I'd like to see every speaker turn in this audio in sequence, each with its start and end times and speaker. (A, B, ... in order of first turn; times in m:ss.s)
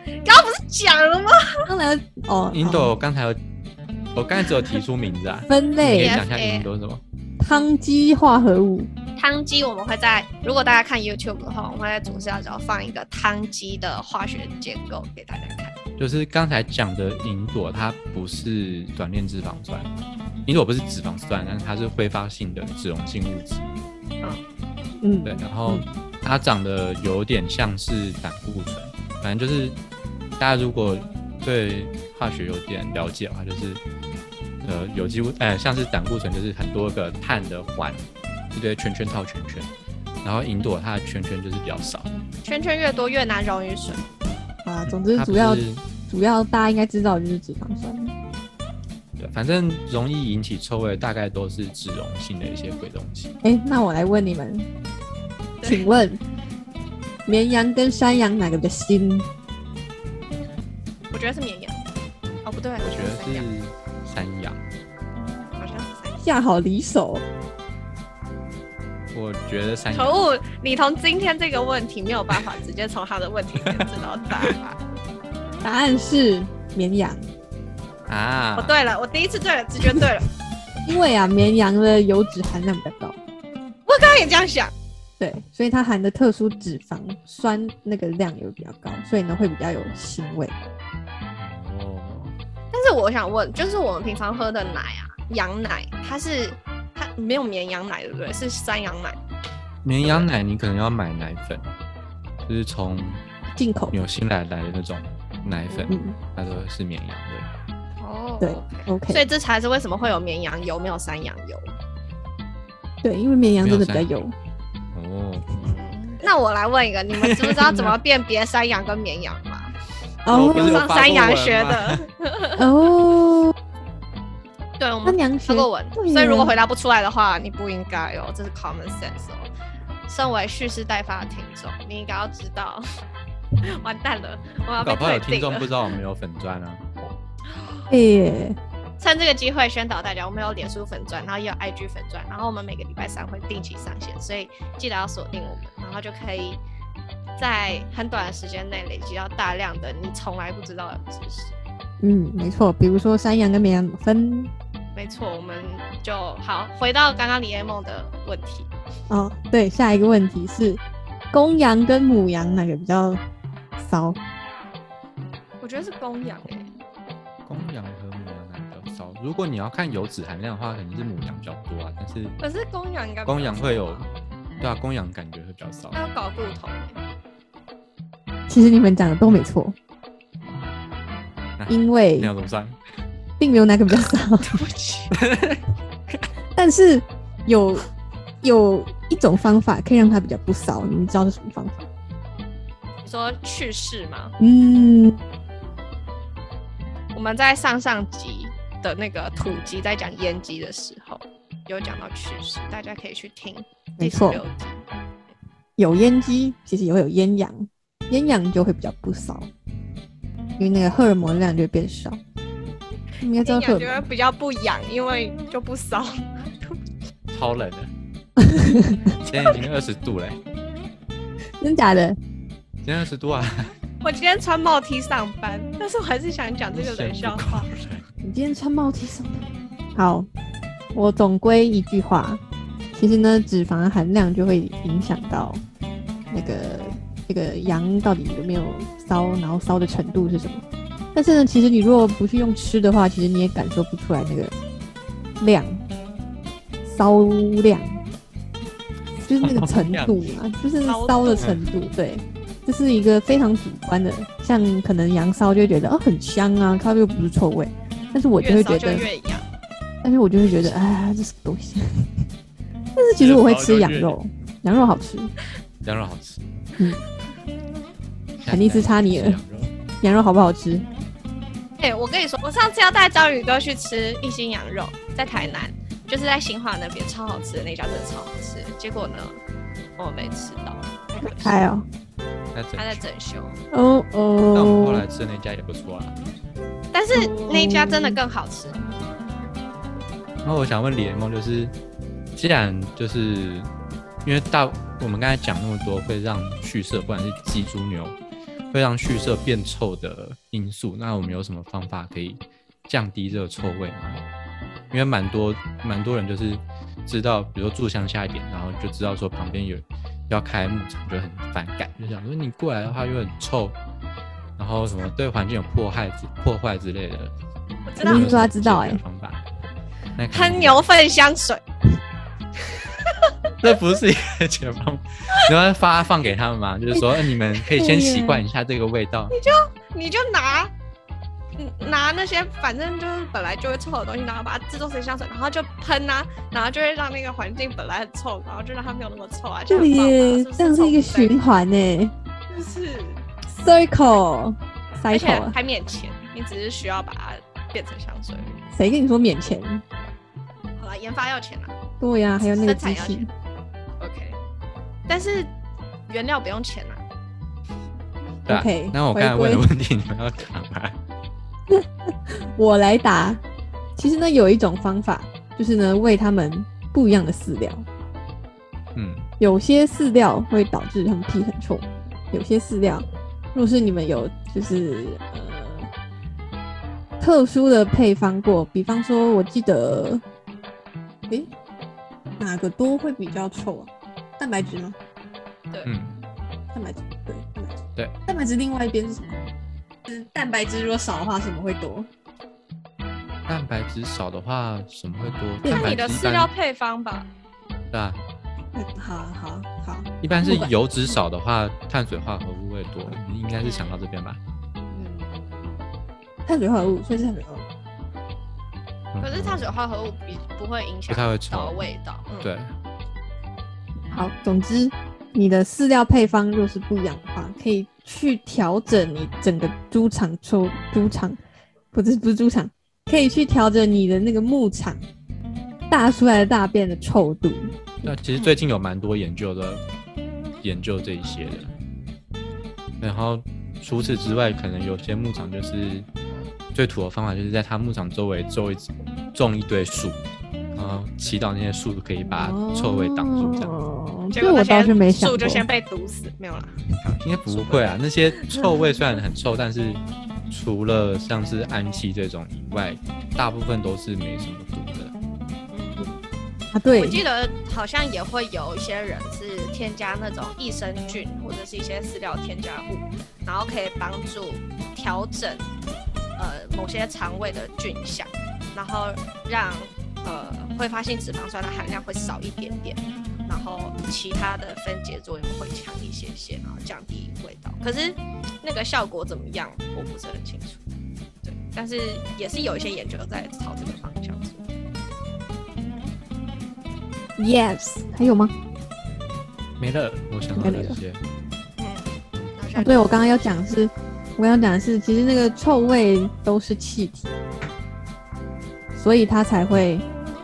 0:00.2-0:01.6 A
0:01.7-0:02.9 B
0:02.5-0:03.4 C
0:04.2-0:07.0 C
0:05.5-0:06.2 B
0:05.9-0:06.7 A
0:07.4-0:08.9 B
0:09.2-0:15.7 A
0:16.0-0:19.9 C
0:20.5-0:23.6 C
0:25.0-0:25.8 B
0:25.2-0:29.8 C
0:30.4-0:33.8 C
0:34.6-0:39.7 C
0:40.2-0:42.1 C
0:42.4-0:44.1 A
0:44.6-0:48.1 B
0:44.9-0:45.8 C
0:49.2-0:53.4 C
0:53.4-0:54.7 B
0:55.6-0:55.9 A
0:55.6-0:56.2 B
0:57.3-0:59.3 B
1:01.1-1:01.9 A
1:02.4-1:03.5 A
1:02.8-1:04.6 C
1:05.6-1:06.3 A
1:06.2-1:07.2 B
1:09.1-1:10.2 C
1:09.9-1:14.6 A
1:13.6-1:13.9 C
1:14.4-1:14.8 C
1:15.6-1:17.3 B
1:18.1-1:18.8 C
1:18.6-1:20.3 A
1:20.8-1:23.2 B
1:23.9-1:24.7 A
1:25.2-1:30.6 B
1:31.4-1:32.4 C
1:32.7-1:39.2 A
1:39.8-1:41.7 C
1:40.0-1:40.3 A
1:42.4-1:43.2 C
1:43.6-1:44.0 B
1:43.9-1:47.5 C
1:45.7-1:45.9 A
1:45.9-1:46.2 B
1:48.0-1:51.8 A
1:48.4-1:49.2 B
1:53.0-1:54.3 B
1:53.6-1:54.2 C
1:54.9-1:55.7 C
1:55.6-1:59.7 A
1:57.2-1:57.8 C
2:00.2-2:00.9 B
2:00.3-2:02.0 C
2:00.5-2:02.6 A
2:02.6-2:03.6 B
2:04.8-2:09.5 A
2:05.0-2:06.5 B
2:10.1-2:12.8 A
2:13.6-2:15.8 A
2:14.8-2:16.8 C
2:17.6-2:17.9 A
2:17.9-2:18.6 B
2:19.0-2:26.6 A
2:27.4-2:31.5 A
2:32.0-2:34.5 B
2:35.0-2:38.7 A
2:39.1-2:40.8 B
2:41.3-2:43.2 B
2:43.8-2:44.2 B
2:45.6-2:46.7 A
2:47.5-2:52.4 C
2:52.4-2:54.1 A
2:53.3-2:54.1 C
2:54.6-2:56.0 C
2:55.9-2:57.0 A
2:58.5-2:59.8 B
3:01.6-3:02.8 C
3:01.7-3:02.3 B
3:03.4-3:04.6 B
3:04.4-3:05.2 A
3:05.1-3:05.6 C
3:06.6-3:07.9 B
3:08.4-3:11.9 B
3:13.0-3:14.4 A
3:14.4-3:15.2 B
3:17.1-3:24.8 A
3:24.0-3:24.4 B
3:25.8-3:29.5 B
3:30.6-3:32.2 B
3:33.2-3:34.1 B
3:33.4-3:36.8 A
3:37.3-3:37.9 C
3:38.4-3:39.2 B
3:39.3-3:40.4 C
3:41.6-3:42.2 B
3:42.8-3:43.7 C
3:44.0-3:47.7 A
3:46.7-3:48.0 C
3:48.2-3:50.3 B
3:50.9-3:52.4 B
3:52.9-3:55.6 B
3:56.3-4:04.5 B
4:05.4-4:05.8 B
4:06.8-4:08.0 B
4:09.2-4:19.0 B
4:09.3-4:10.2 C
4:10.8-4:11.5 A
4:18.4-4:19.4 A
4:20.0-4:22.2 B
4:23.0-4:25.3 B
4:23.2-4:24.2 C
4:25.8-4:26.7 C
4:28.4-4:29.7 C
4:28.5-4:29.4 B
4:30.0-4:30.9 B
4:31.8-4:39.4 A
4:40.0-4:41.6 A
4:41.2-4:41.9 B
4:42.5-4:43.0 C
4:42.8-4:43.6 A
4:43.7-4:45.0 B
4:44.5-4:46.2 C
4:46.9-4:48.8 A
4:47.2-4:48.2 B
4:50.4-4:51.7 C
4:52.4-4:53.7 C
4:54.2-4:58.2 C
4:58.7-5:04.2 C
5:04.9-5:13.8 C
5:14.6-5:17.3 C
5:17.9-5:18.3 A
5:18.0-5:19.0 B
5:18.0-5:19.4 C
5:20.2-5:20.9 C
5:20.3-5:21.6 A
5:23.6-5:29.4 C
5:26.9-5:28.4 B
5:29.3-5:30.7 A
5:31.6-5:41.4 A
5:39.7-5:42.1 B
5:42.5-5:43.2 A
5:43.5-5:45.6 B
5:45.1-5:48.6 A
5:48.7-5:49.8 B
5:50.8-5:51.7 A
5:52.0-5:53.3 B
5:52.5-5:53.3 A
5:54.0-5:54.4 A
5:55.1-5:55.5 A
5:56.1-5:57.0 A
5:58.5-6:01.0 C
5:58.5-5:59.6 B
6:01.7-6:03.4 B
6:04.0-6:07.9 B
6:09.0-6:09.3 C
6:09.4-6:15.9 B
6:17.2-6:20.2 B
6:22.4-6:25.0 B
6:25.8-6:26.2 C
6:26.7-6:29.4 B
6:30.1-6:32.1 B
6:33.5-6:36.5 C
6:35.6-6:36.0 B
6:35.7-6:37.3 A
6:37.9-6:38.2 C
6:38.8-6:41.2 B
6:40.2-6:44.4 C
6:43.6-6:44.0 A
6:45.0-6:45.4 A
6:46.4-6:47.7 B
6:49.1-6:49.7 C
6:49.2-6:52.5 A
6:51.1-6:51.8 C
6:52.4-6:52.7 C
6:54.1-7:01.4 B
7:01.9-7:05.0 B
7:05.9-7:08.2 B
7:08.0-7:09.8 C
7:10.6-7:11.7 C
7:13.0-7:16.1 C
7:16.7-7:20.2 C
7:20.8-7:23.8 C
7:22.3-7:25.7 B
7:24.3-7:28.8 A
7:27.2-7:35.1 C
7:35.7-7:36.1 A
7:36.7-7:37.2 B
7:37.0-7:45.7 A
7:46.4-8:00.8 A
8:01.4-8:04.6 A
8:07.4-8:08.5 B
8:09.8-8:11.2 C
8:10.6-8:11.0 B
8:11.8-8:13.6 A
8:12.8-8:17.3 B
8:19.0-8:20.1 B